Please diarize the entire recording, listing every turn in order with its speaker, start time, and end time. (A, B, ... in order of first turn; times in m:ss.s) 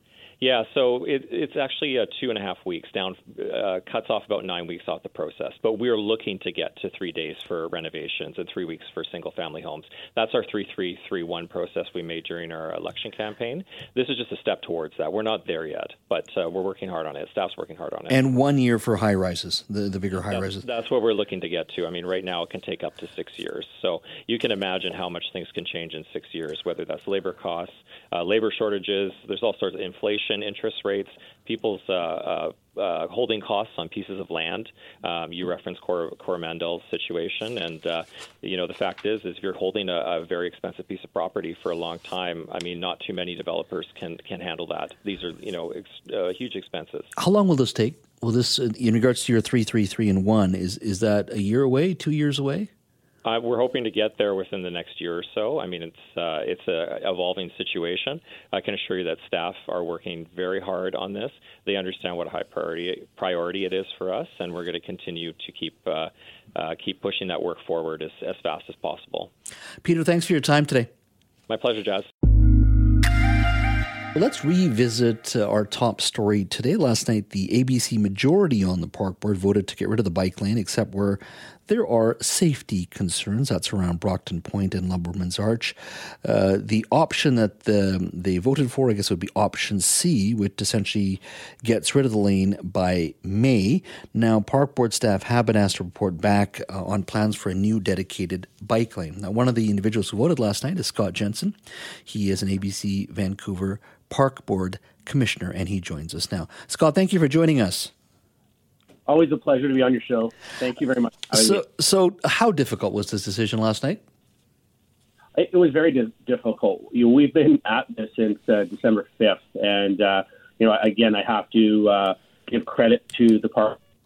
0:00.4-0:18.2 A
0:18.1-0:20.6 B
0:20.3-0:47.1 A
0:47.2-0:52.7 B
0:53.2-1:09.3 A
1:09.8-1:10.9 B
1:11.5-1:12.1 A
1:14.2-1:47.9 B
1:49.1-1:51.6 C
1:51.3-1:54.0 B
1:55.4-2:03.8 C